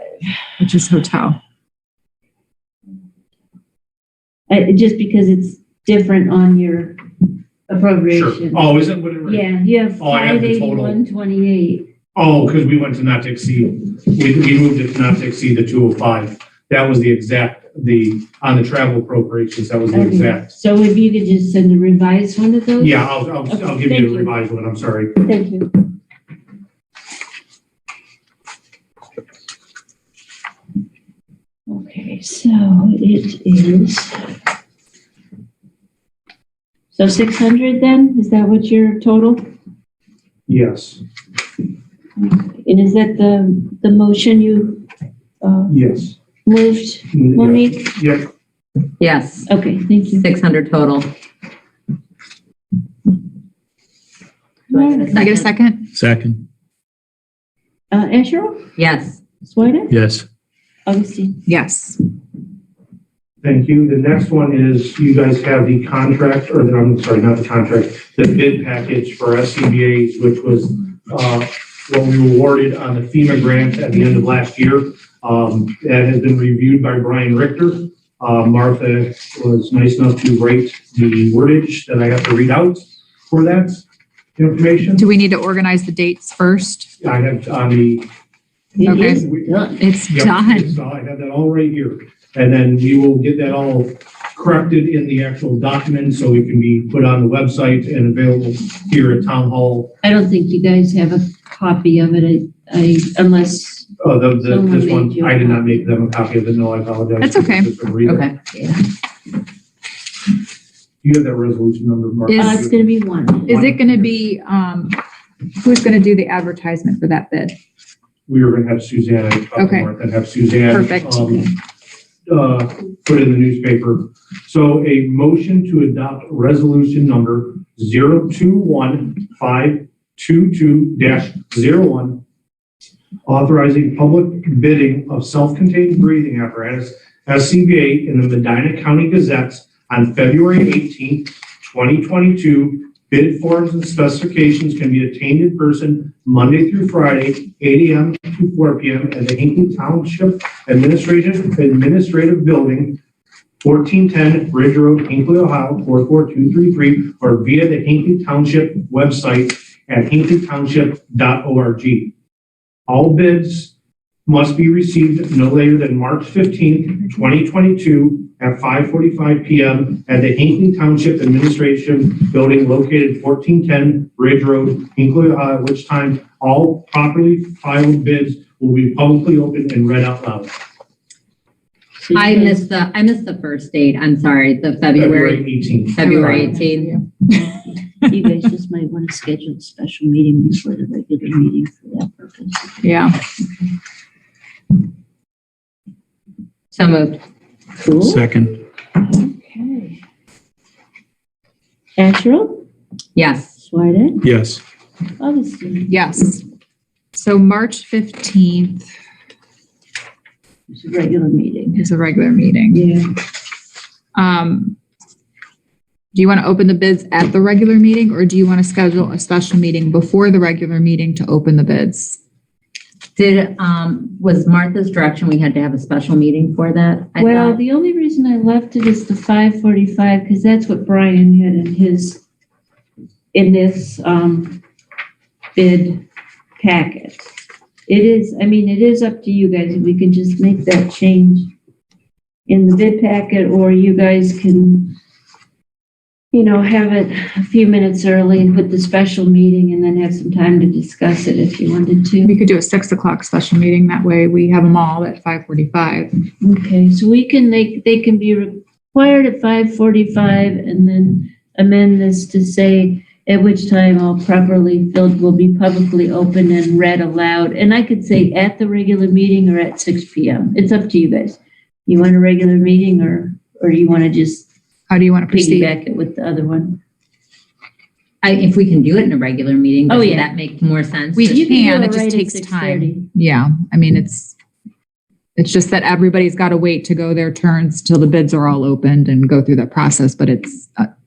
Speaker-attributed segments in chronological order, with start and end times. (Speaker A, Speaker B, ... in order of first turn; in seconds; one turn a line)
Speaker A: 0.6-1.4
Speaker B: 4.5-7.0
Speaker B: 7.7-8.6
Speaker C: 8.1-9.4
Speaker B: 9.2-11.9
Speaker C: 10.0-11.0
Speaker C: 12.1-20.5
Speaker B: 19.9-24.3
Speaker C: 22.8-25.2
Speaker B: 25.2-25.7
Speaker B: 31.7-34.3
Speaker B: 36.9-39.5
Speaker C: 40.5-41.0
Speaker B: 42.2-44.9
Speaker B: 45.4-45.8
Speaker C: 45.7-46.2
Speaker B: 46.4-47.9
Speaker C: 47.1-48.3
Speaker D: 49.0-49.5
Speaker B: 49.5-50.2
Speaker D: 50.1-51.1
Speaker D: 54.7-55.5
Speaker B: 54.7-55.1
Speaker A: 54.9-55.9
Speaker E: 55.9-56.4
Speaker B: 57.9-58.7
Speaker D: 58.8-59.2
Speaker B: 59.4-59.9
Speaker E: 59.9-60.2
Speaker B: 60.9-61.4
Speaker A: 61.5-62.0
Speaker C: 63.4-83.8
Speaker C: 84.4-85.0
Speaker A: 85.0-86.9
Speaker C: 87.0-88.0
Speaker B: 88.8-89.8
Speaker A: 88.8-89.3
Speaker C: 88.9-89.5
Speaker A: 89.8-90.6
Speaker C: 90.0-99.9
Speaker B: 100.0-106.0
Speaker C: 104.0-108.3
Speaker A: 107.2-107.7
Speaker D: 108.0-108.8
Speaker C: 111.0-112.7
Speaker A: 112.3-112.7
Speaker B: 112.3-114.0
Speaker A: 113.5-115.0
Speaker A: 115.6-117.6
Speaker C: 118.3-121.5
Speaker A: 119.5-119.9
Speaker A: 120.7-121.5
Speaker C: 122.3-132.2
Speaker C: 133.2-153.0
Speaker C: 153.6-162.1
Speaker C: 162.9-163.7
Speaker C: 164.2-180.6
Speaker B: 182.0-182.6
Speaker D: 182.1-186.9
Speaker C: 184.9-186.4
Speaker A: 186.0-188.1
Speaker B: 187.3-192.9
Speaker A: 192.8-193.2
Speaker D: 196.7-197.2
Speaker B: 197.8-198.3
Speaker E: 198.0-198.5
Speaker B: 199.0-200.0
Speaker B: 202.0-202.6
Speaker D: 203.1-203.5
Speaker B: 203.6-204.2
Speaker E: 204.2-204.6
Speaker B: 205.2-205.9
Speaker A: 205.9-206.4
Speaker A: 207.1-208.9
Speaker B: 210.7-211.9
Speaker A: 211.8-212.8
Speaker B: 212.7-213.1
Speaker A: 214.1-214.8
Speaker A: 216.1-222.2
Speaker D: 223.2-227.6
Speaker B: 227.2-232.2
Speaker B: 233.3-234.6
Speaker B: 235.5-236.0
Speaker B: 236.6-237.2
Speaker B: 237.9-241.5
Speaker B: 242.5-244.9
Speaker B: 246.3-252.4
Speaker A: 252.2-256.1
Speaker B: 256.4-274.5
Speaker A: 274.9-275.7
Speaker B: 275.3-276.8
Speaker D: 278.2-281.5
Speaker B: 279.9-280.3
Speaker A: 281.1-284.4
Speaker B: 281.2-283.1
Speaker A: 285.4-290.9